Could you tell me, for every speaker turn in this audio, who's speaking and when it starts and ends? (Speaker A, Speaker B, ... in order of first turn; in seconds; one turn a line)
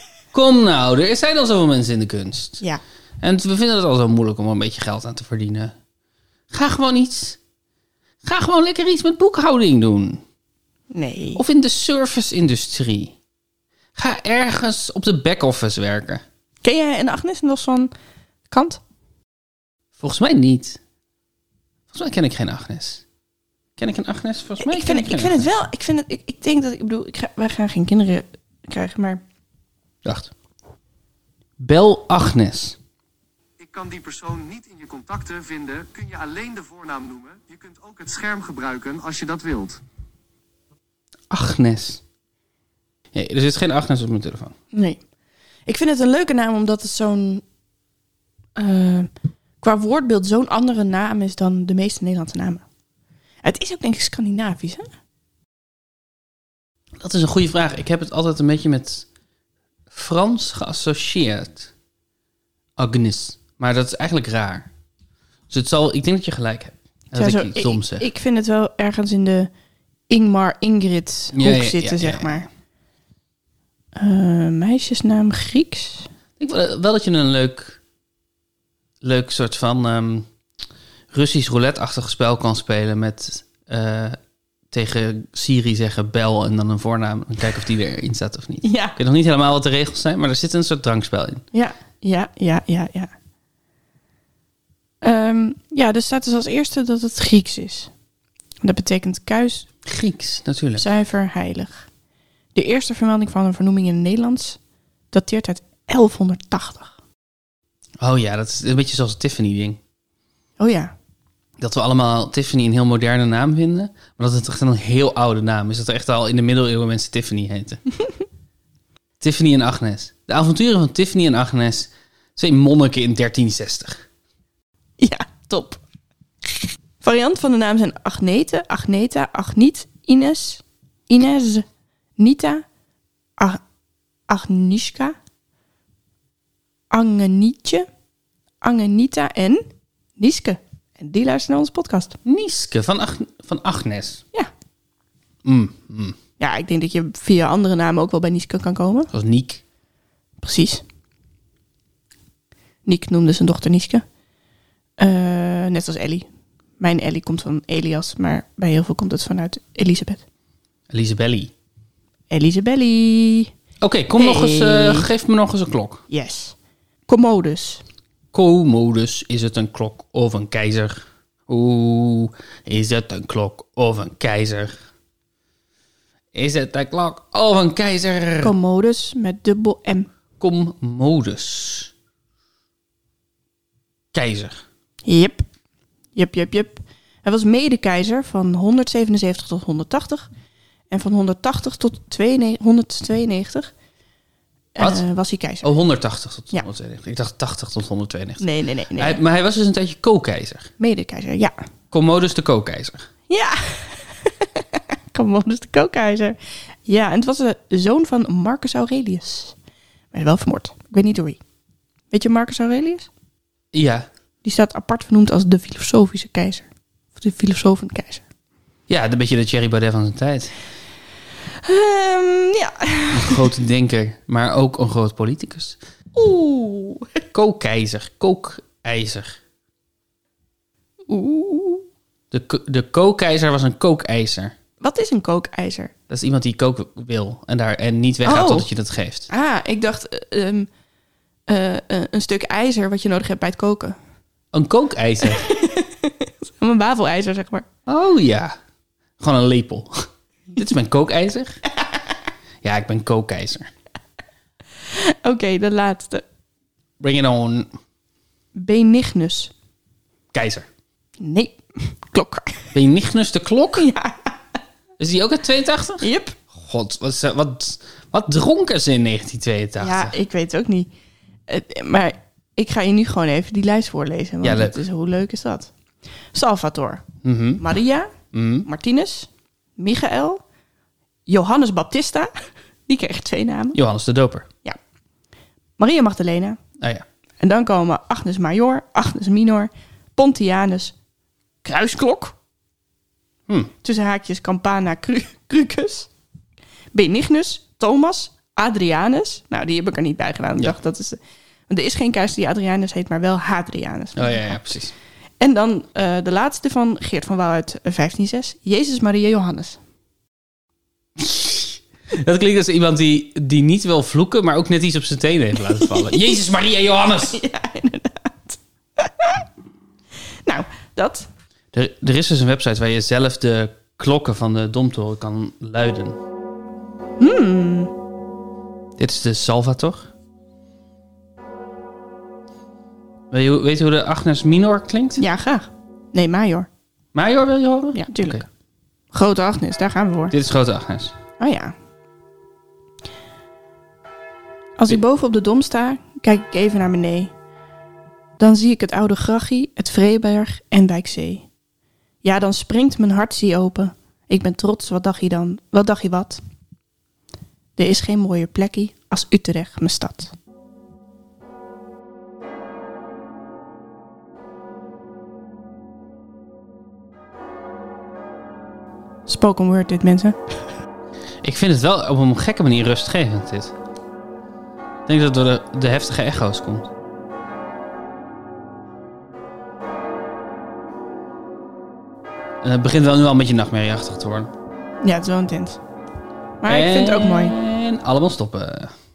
Speaker A: 0.3-2.6
Speaker A: 3.2-5.7
Speaker A: 6.5-7.4
Speaker A: 8.2-10.2
Speaker B: 10.9-11.4
Speaker A: 11.3-13.2
Speaker A: 14.0-16.2
Speaker B: 16.6-17.9
Speaker B: 18.5-18.8
Speaker A: 20.0-20.8
Speaker A: 21.9-23.0
Speaker A: 23.8-25.5
Speaker B: 24.6-29.2
Speaker A: 30.1-30.3
Speaker A: 31.6-32.8
Speaker C: 33.6-39.8
Speaker A: 41.3-42.0
Speaker A: 43.1-44.5
Speaker B: 44.7-45.0
Speaker B: 45.7-47.4
Speaker B: 48.6-49.1
Speaker B: 49.6-52.6
Speaker B: 53.4-54.9
Speaker A: 57.0-59.1
Speaker A: 59.9-61.7
Speaker A: 62.8-64.7
Speaker A: 65.5-68.1
Speaker B: 67.1-69.5
Speaker B: 70.1-72.5
Speaker A: 71.3-72.5
Speaker B: 74.0-76.1
Speaker A: 76.4-77.8
Speaker A: 79.0-80.3
Speaker A: 81.1-84.2
Speaker A: 84.7-91.4
Speaker B: 88.6-89.0
Speaker B: 91.5-93.1
Speaker B: 95.0-97.9
Speaker B: 98.6-99.7
Speaker A: 99.8-100.9
Speaker B: 100.8-101.9
Speaker B: 102.5-104.6
Speaker B: 105.1-106.9
Speaker A: 108.0-109.8
Speaker B: 110.6-110.9
Speaker A: 111.6-117.8
Speaker A: 119.2-124.1
Speaker B: 125.0-125.8
Speaker B: 126.4-131.7
Speaker B: 132.2-132.7
Speaker B: 134.3-135.2
Speaker B: 136.9-137.9
Speaker B: 138.6-142.2
Speaker A: 142.2-144.2
Speaker A: 145.4-146.2
Speaker B: 146.4-149.1
Speaker A: 149.1-149.6
Speaker B: 150.4-150.8
Speaker B: 152.8-154.0
Speaker B: 155.0-156.3
Speaker B: 156.8-160.2
Speaker A: 160.9-161.5
Speaker B: 162.3-163.5
Speaker A: 163.8-166.0
Speaker B: 164.2-165.1
Speaker B: 166.1-166.6
Speaker B: 167.1-167.8
Speaker A: 168.3-174.8
Speaker A: 176.3-178.5
Speaker B: 178.4-180.1
Speaker A: 180.4-181.9
Speaker A: 184.1-184.6
Speaker B: 185.0-185.4
Speaker B: 186.1-190.3
Speaker B: 190.9-193.7
Speaker B: 194.8-195.7
Speaker A: 195.6-200.7
Speaker B: 198.4-199.2
Speaker B: 200.8-201.6
Speaker A: 201.9-203.1
Speaker B: 203.3-209.6
Speaker B: 210.1-211.4
Speaker B: 212.1-213.1
Speaker A: 213.7-214.1
Speaker B: 214.4-218.2
Speaker A: 218.9-220.6
Speaker B: 221.6-223.5
Speaker A: 223.1-225.8
Speaker B: 226.2-227.2
Speaker A: 227.3-229.4
Speaker B: 231.1-231.9
Speaker A: 232.3-234.6
Speaker B: 234.8-235.9
Speaker A: 236.1-239.3
Speaker B: 238.2-238.7
Speaker B: 239.3-240.7
Speaker B: 241.5-244.0
Speaker A: 244.5-245.5
Speaker B: 245.2-247.7
Speaker A: 247.9-248.6
Speaker A: 249.2-251.6
Speaker A: 252.6-253.7
Speaker B: 254.8-256.2
Speaker A: 257.0-257.7
Speaker B: 258.6-259.5
Speaker A: 260.3-260.7
Speaker B: 261.2-262.8
Speaker A: 262.7-263.9
Speaker B: 263.8-264.4
Speaker A: 265.0-270.1
Speaker B: 266.0-266.4
Speaker B: 269.8-270.9
Speaker B: 271.5-275.7
Speaker A: 274.4-274.8
Speaker B: 276.3-277.1
Speaker A: 277.2-277.6
Speaker B: 277.6-278.1
Speaker A: 278.3-278.7
Speaker B: 278.6-280.4
Speaker B: 281.3-282.3
Speaker B: 282.9-283.8
Speaker A: 283.7-284.5
Speaker B: 285.8-286.6
Speaker B: 287.4-290.9
Speaker B: 291.6-292.4
Speaker B: 293.8-296.1
Speaker B: 296.9-304.6
Speaker A: 304.2-304.9
Speaker B: 305.4-309.8
Speaker A: 311.2-317.4
Speaker B: 315.7-316.4
Speaker B: 317.2-319.4
Speaker B: 320.4-321.3
Speaker A: 321.7-326.2
Speaker B: 327.2-327.9
Speaker A: 329.0-330.1
Speaker A: 333.3-335.2
Speaker B: 335.2-336.7
Speaker A: 337.1-338.4
Speaker B: 337.9-338.4
Speaker B: 339.1-340.3
Speaker A: 340.3-341.1
Speaker B: 341.4-341.8
Speaker B: 344.8-347.3
Speaker B: 348.4-351.5
Speaker B: 352.2-356.4
Speaker B: 357.8-360.3
Speaker B: 369.3-370.5
Speaker A: 371.4-373.7
Speaker A: 375.1-376.9
Speaker A: 382.6-384.5
Speaker B: 385.0-385.8
Speaker B: 386.6-387.6
Speaker A: 386.7-388.9